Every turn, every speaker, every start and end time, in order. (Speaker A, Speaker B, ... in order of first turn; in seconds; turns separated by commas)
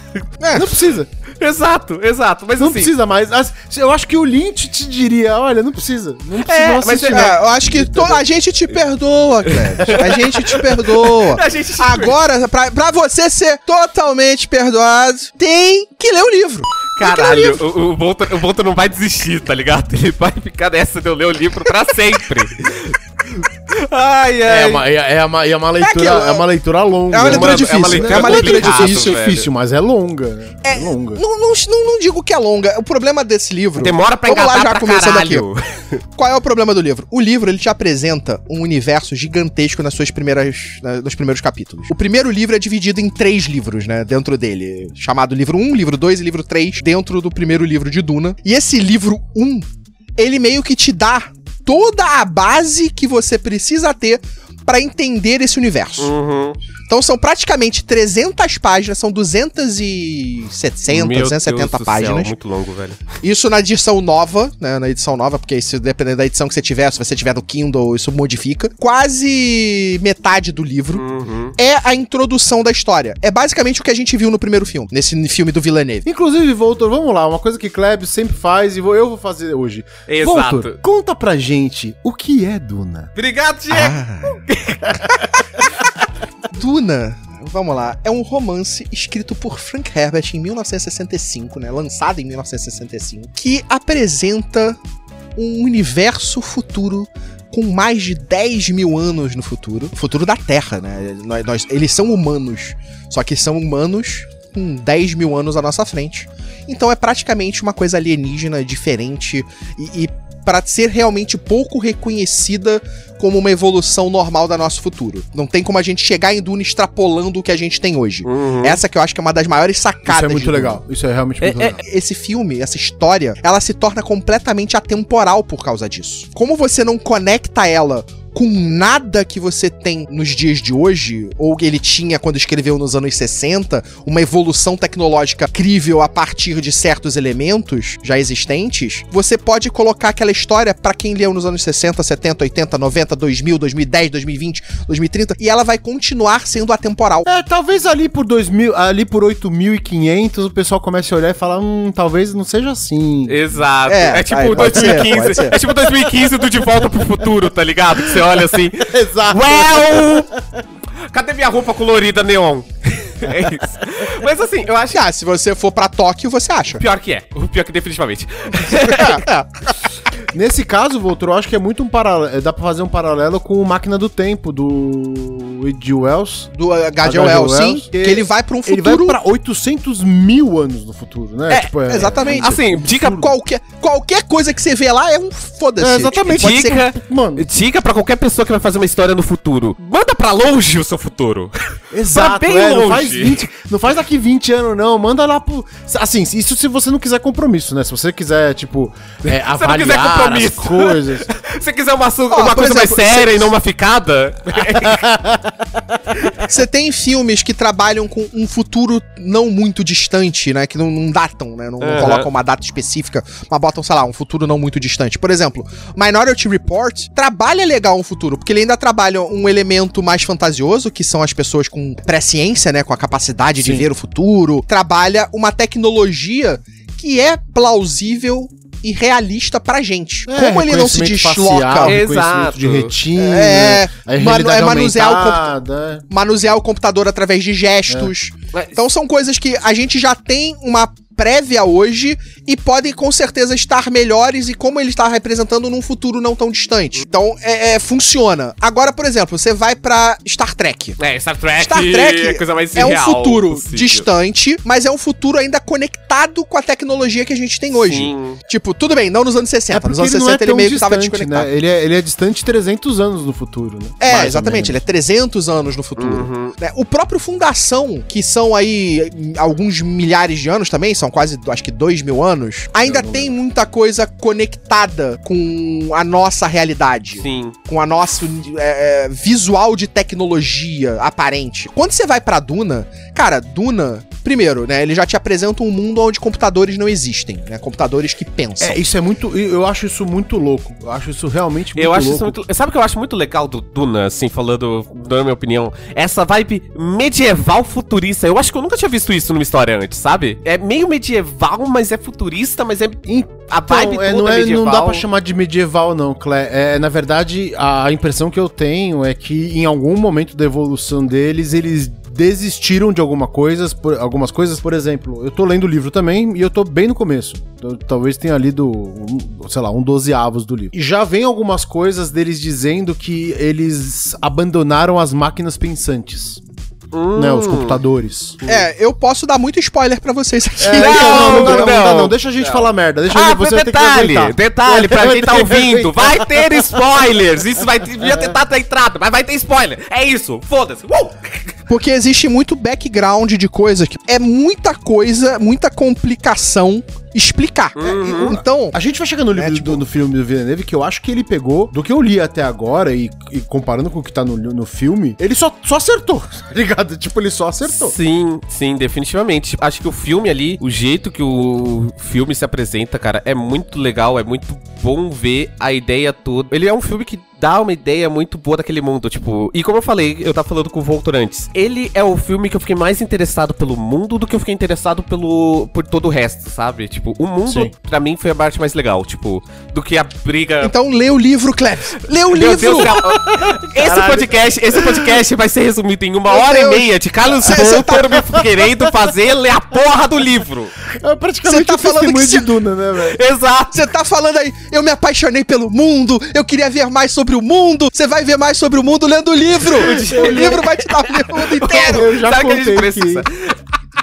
Speaker A: 0.4-0.7, Speaker B: 0.5-1.1, Speaker C: 1.4-2.9, Speaker B: 2.6-8.2, Speaker C: 6.4-7.3, Speaker A: 7.1-17.6, Speaker C: 9.5-12.1, Speaker C: 16.9-23.0, Speaker C: 23.7-24.8, Speaker B: 24.4-31.2, Speaker A: 25.8-26.4, Speaker A: 27.1-29.2, Speaker C: 27.2-29.5, Speaker A: 30.6-35.4, Speaker C: 33.8-35.6, Speaker A: 36.1-56.1, Speaker C: 56.0-56.6, Speaker A: 56.9-62.3, Speaker C: 60.9-63.0, Speaker A: 63.2-71.0, Speaker C: 70.9-71.5, Speaker A: 71.5-76.0, Speaker B: 76.0-83.1, Speaker C: 80.1-80.8, Speaker C: 83.1-85.2, Speaker A: 83.7-84.4, Speaker A: 85.1-85.4, Speaker A: 86.5-94.8, Speaker A: 95.3-120.8, Speaker C: 118.2-118.8, Speaker B: 120.0-121.8, Speaker C: 121.4-121.8, Speaker A: 121.8-147.3, Speaker B: 147.2-153.4, Speaker C: 153.3-160.3, Speaker A: 153.9-155.6, Speaker B: 154.5-156.6, Speaker B: 157.9-160.6, Speaker C: 161.1-165.0, Speaker A: 164.9-166.8, Speaker C: 166.7-169.2, Speaker A: 168.7-169.6, Speaker B: 170.3-183.3, Speaker A: 176.5-179.2, Speaker A: 181.5-186.8, Speaker C: 182.2-183.2, Speaker B: 185.8-187.4, Speaker C: 186.3-191.5, Speaker B: 191.9-201.3, Speaker C: 192.1-193.4, Speaker C: 199.3-205.1, Speaker A: 202.3-203.5, Speaker B: 204.6-205.6, Speaker A: 206.4-231.9, Speaker C: 211.8-212.3, Speaker B: 223.6-223.8, Speaker B: 230.3-236.0, Speaker C: 231.8-232.9, Speaker A: 233.1-235.5, Speaker A: 236.1-251.0, Speaker C: 251.0-254.1, Speaker A: 251.6-261.5, Speaker C: 257.7-258.4, Speaker B: 259.7-264.8, Speaker A: 264.0-288.8, Speaker C: 266.0-266.5, Speaker B: 272.9-273.3, Speaker C: 277.2-277.6, Speaker B: 288.6-292.4, Speaker C: 291.8-305.1, Speaker B: 303.1-326.4, Speaker C: 326.9-327.8, Speaker B: 327.1-328.7, Speaker A: 328.4-331.7, Speaker B: 330.6-337.1, Speaker C: 330.8-341.6, Speaker B: 338.0-338.3, Speaker A: 341.7-348.7, Speaker C: 347.8-348.4, Speaker B: 348.0-357.9, Speaker A: 349.3-349.8, Speaker C: 357.7-380.7, Speaker B: 377.5-377.7, Speaker A: 380.6-383.0, Speaker C: 382.3-390.7, Speaker B: 382.7-385.2, Speaker A: 386.3-388.3, Speaker B: 388.4-388.9, Speaker B: 390.9-393.2, Speaker A: 391.4-392.5, Speaker C: 393.1-393.8, Speaker A: 393.7-402.1, Speaker C: 399.6-403.5, Speaker B: 399.9-400.6, Speaker B: 401.6-403.2